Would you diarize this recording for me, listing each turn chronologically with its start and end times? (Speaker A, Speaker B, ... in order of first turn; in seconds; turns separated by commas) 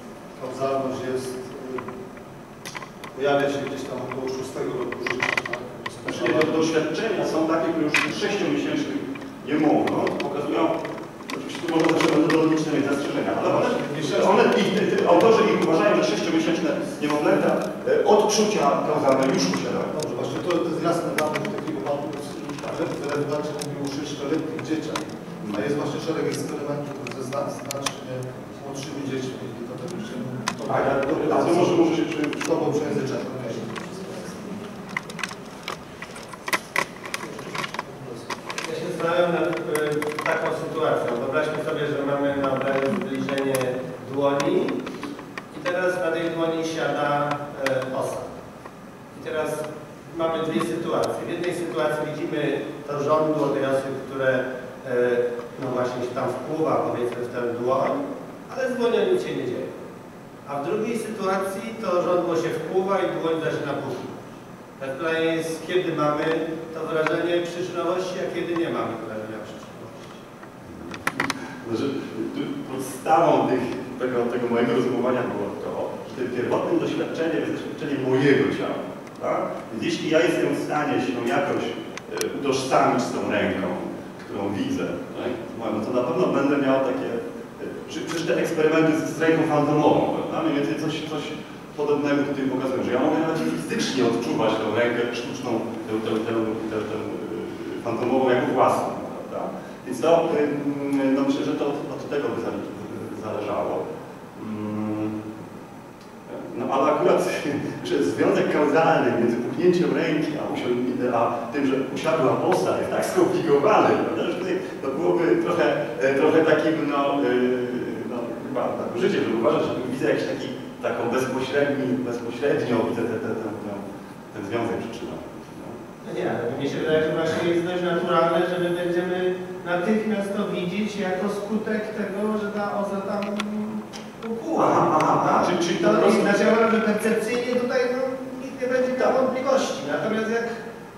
Speaker A: 0.4-1.9, Speaker A: 3.1-6.5, Speaker B: 6.0-19.9, Speaker A: 13.5-14.5, Speaker A: 19.9-34.7, Speaker B: 30.7-32.6, Speaker A: 37.2-38.3, Speaker C: 38.6-44.9, Speaker C: 45.5-48.3, Speaker C: 49.1-59.7, Speaker C: 60.5-64.2, Speaker C: 64.8-70.2, Speaker B: 70.6-103.8, Speaker B: 104.3-105.2, Speaker B: 106.3-125.8, Speaker C: 126.0-140.6, Speaker B: 134.6-136.4